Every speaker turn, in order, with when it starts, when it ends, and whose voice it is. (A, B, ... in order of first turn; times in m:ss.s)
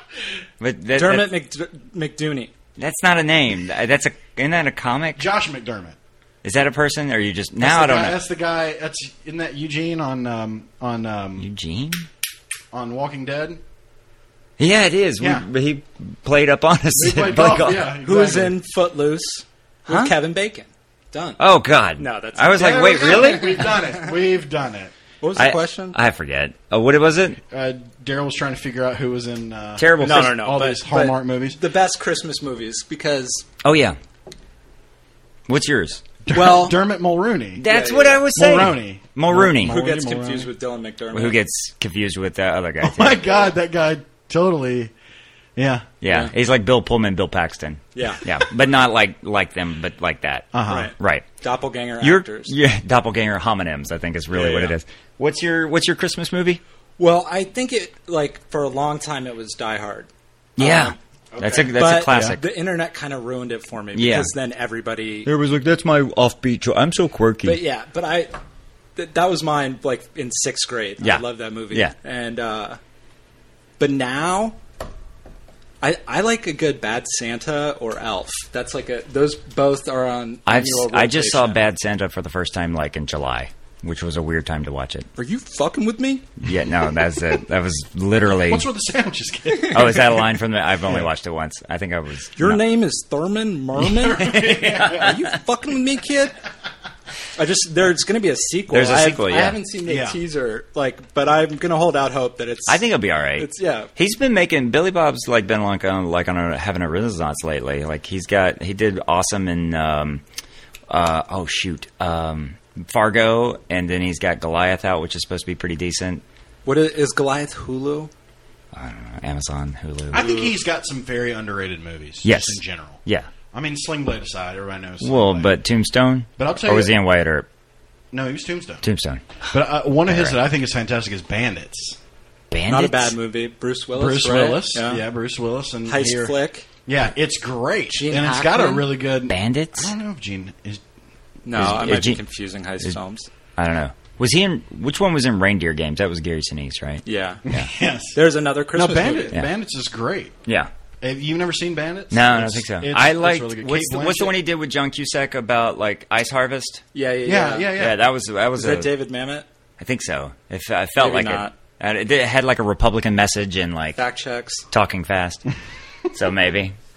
0:00.6-0:01.3 A
0:01.0-0:02.5 B
0:02.8-0:05.2 A
0:05.2-0:06.0 C
0:06.4-0:08.2 A
0:07.6-0:11.5 C
0:11.4-0:12.1 A
0:12.7-0:13.6 C
0:14.6-0:17.9 A
0:15.2-0:15.5 C
0:16.9-0:18.6 C
0:18.0-0:21.4 B
0:21.4-0:23.8 A
0:22.0-0:23.8 B
0:22.5-0:24.9 C
0:25.2-0:26.0 B
0:25.4-0:27.4 A
0:27.5-0:31.6 C
0:29.8-0:30.4 A
0:30.0-0:33.4 B
0:33.6-0:34.0 A
0:35.5-0:36.0 A
0:36.2-0:37.7 C
0:36.3-0:36.8 B
0:37.6-0:39.8 A
0:37.6-0:38.3 B
0:38.3-0:40.5 C
0:39.6-0:41.4 B
0:41.1-0:43.2 A
0:42.8-0:44.9 C
0:45.6-0:45.9 C
0:46.0-0:51.3 A
0:46.0-0:46.3 B
0:48.0-0:48.2 B
0:50.5-0:50.9 C
0:50.7-0:52.6 B
0:52.0-0:56.6 A
0:54.3-0:54.8 B
0:57.0-1:01.0 B
1:00.6-1:02.4 A
1:01.3-1:02.4 C
1:01.7-1:05.3 B
1:03.9-1:04.3 A
1:05.3-1:07.6 A
1:07.4-1:08.3 B
1:09.0-1:12.8 B
1:11.0-1:11.9 A
1:13.8-1:14.6 B
1:15.8-1:21.6 B
1:20.5-1:25.1 A
1:25.2-1:26.3 B
1:26.4-1:28.7 A
1:28.4-1:30.3 C
1:29.6-1:32.6 A
1:32.4-1:36.4 B
1:33.8-1:35.2 C
1:34.3-1:35.1 A
1:37.4-1:42.8 B
1:38.7-1:39.6 A
1:39.8-1:40.2 C
1:42.7-1:50.2 A
1:43.4-1:43.9 B
1:50.9-1:56.2 A
1:56.6-1:58.1 B
1:58.7-2:00.3 A
2:00.1-2:05.6 C
2:00.2-2:00.5 B
2:02.2-2:03.3 A
2:05.0-2:07.5 A
2:06.4-2:06.9 C
2:08.1-2:08.8 C
2:08.8-2:09.4 A
2:09.5-2:12.0 C
2:10.1-2:10.4 A
2:12.5-2:13.2 A
2:12.7-2:15.0 B
2:13.9-2:20.8 C
2:15.9-2:16.7 B
2:17.9-2:18.9 B
2:19.3-2:19.9 A
2:21.4-2:23.3 B
2:21.6-2:22.2 A
2:23.6-2:27.7 A
2:27.1-2:27.4 B
2:27.5-2:28.2 C
2:28.1-2:29.4 B
2:28.7-2:30.4 C
2:30.5-2:30.7 A
2:31.0-2:34.4 C
2:32.1-2:36.8 A
2:37.0-2:37.7 B
2:37.2-2:38.0 C
2:37.8-2:38.9 A
2:38.6-2:39.4 B
2:39.8-2:44.0 A
2:41.0-2:41.5 B
2:44.0-2:44.6 B
2:44.7-2:45.4 A
2:46.1-2:46.8 A